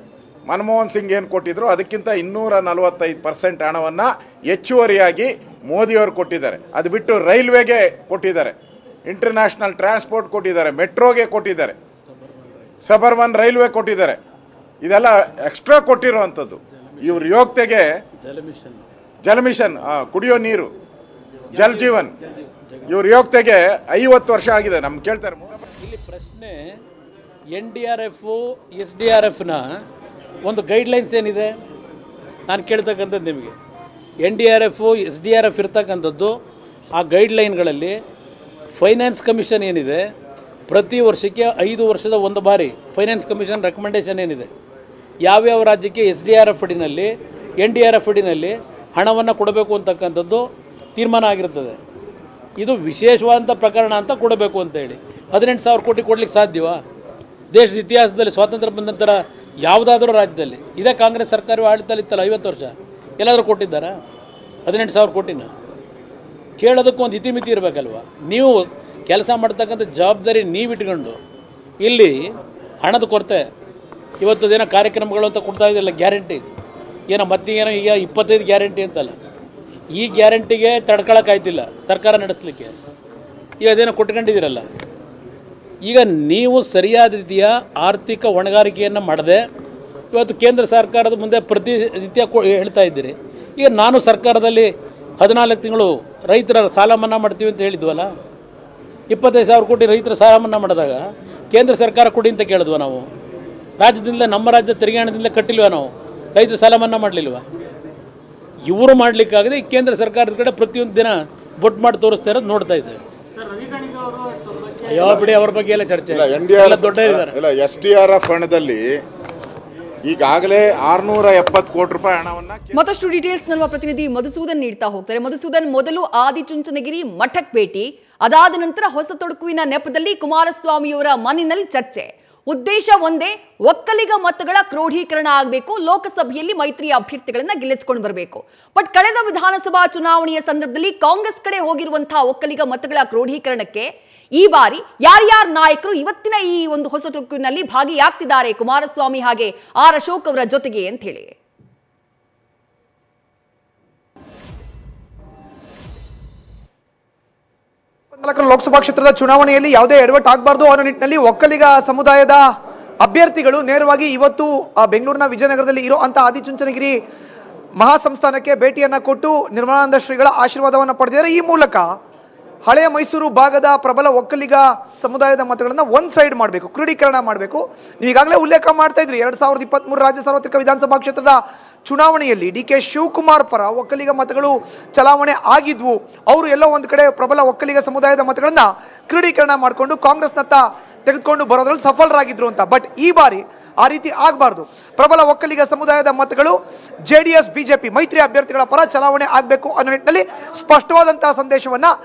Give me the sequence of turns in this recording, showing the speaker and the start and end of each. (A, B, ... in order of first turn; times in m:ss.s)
0:00.5-0:08.6 A
0:09.1-0:11.8 A
0:12.8-0:14.2 A
0:14.8-0:17.9 A
0:18.2-0:18.8 B
0:19.2-0:20.7 A
0:21.5-0:22.1 A
0:21.6-0:21.9 B
0:22.4-0:22.8 B
0:22.9-0:25.6 A
0:25.8-0:26.8 B
0:27.5-0:29.7 B
0:30.4-0:31.5 B
0:32.5-0:33.6 B
0:34.2-0:36.4 B
0:37.0-0:38.0 B
0:38.8-0:40.0 B
0:40.7-0:44.5 B
0:45.2-0:50.4 B
0:51.0-0:51.8 B
0:52.6-0:56.8 B
0:57.5-1:04.0 B
1:04.7-1:05.5 B
1:06.6-1:11.2 B
1:11.8-1:12.3 B
1:12.8-1:13.5 B
1:14.2-1:16.4 B
1:17.1-1:19.2 B
1:19.9-1:22.7 B
1:23.6-1:24.6 B
1:25.8-1:29.4 B
1:30.1-1:38.1 B
1:39.1-1:41.0 B
1:41.5-1:43.1 B
1:43.8-1:47.4 B
1:48.7-1:53.0 B
1:53.7-1:57.3 B
1:56.1-1:59.0 A
2:00.1-2:02.8 A
2:02.7-2:31.4 C
2:38.1-2:42.4 D
2:43.0-2:47.0 D
2:47.8-2:51.9 D
2:52.6-3:21.9 D